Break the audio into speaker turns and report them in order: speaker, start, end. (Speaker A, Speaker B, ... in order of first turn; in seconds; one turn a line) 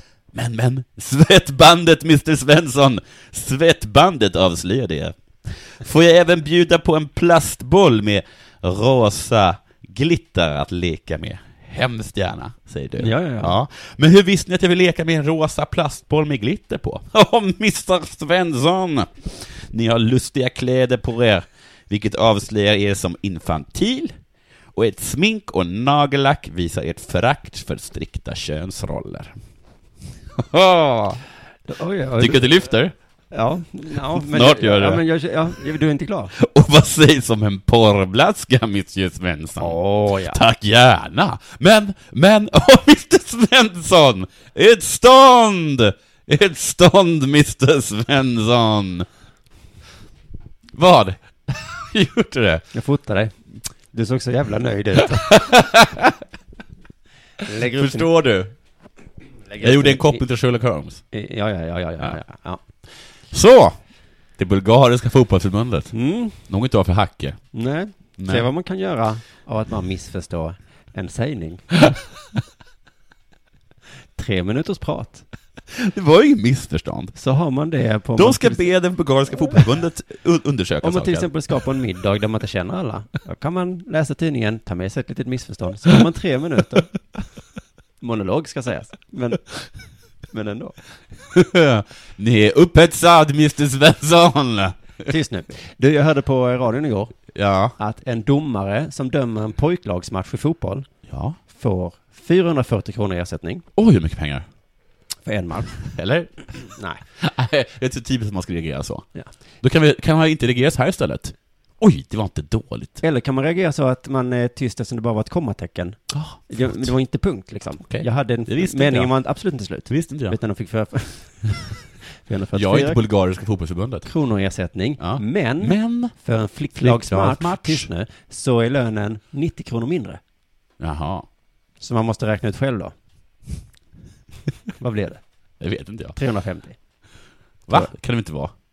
Speaker A: 0.3-24.2
Speaker B: 13.0-13.5
Speaker A: 24.7-29.4
Speaker A: 30.4-31.2
Speaker B: 31.7-32.5
Speaker A: 32.2-32.9
Speaker B: 33.3-36.3
Speaker A: 34.1-35.0
Speaker A: 36.3-49.1
Speaker B: 39.6-40.4
Speaker A: 50.7-52.7
Speaker B: 52.7-53.4
Speaker B: 53.9-55.4
Speaker A: 55.0-56.1
Speaker B: 57.4-58.1
Speaker A: 57.6-58.5
Speaker B: 59.5-60.2
Speaker A: 59.6-61.0
Speaker B: 61.1-62.6
Speaker A: 63.3-63.8
Speaker A: 64.4-67.4
Speaker B: 65.9-66.4
Speaker B: 67.5-71.7
Speaker A: 68.2-68.5
Speaker B: 74.2-75.2
Speaker A: 75.7-77.2
Speaker B: 77.2-78.6
Speaker A: 78.2-81.3
Speaker B: 80.8-87.0
Speaker B: 88.0-89.5
Speaker B: 90.3-90.8
Speaker A: 91.3-94.8
Speaker B: 95.1-97.1
Speaker A: 97.3-97.8
Speaker B: 97.8-100.9
Speaker A: 101.1-101.4
Speaker B: 101.5-103.7
Speaker A: 103.8-104.5
Speaker B: 105.2-105.8
Speaker A: 105.8-109.1
Speaker B: 106.8-107.0
Speaker A: 109.6-113.0
Speaker B: 113.0-121.7
Speaker A: 116.1-116.9
Speaker A: 117.8-119.1
Speaker A: 119.9-120.4
Speaker B: 122.3-123.0
Speaker A: 122.5-124.1
Speaker B: 124.0-130.2
Speaker A: 125.0-126.1
Speaker A: 126.8-127.9
Speaker A: 130.8-131.3
Speaker B: 131.8-132.9
Speaker B: 134.8-135.2
Speaker A: 135.6-136.2
Speaker B: 136.2-136.8
Speaker A: 137.7-138.5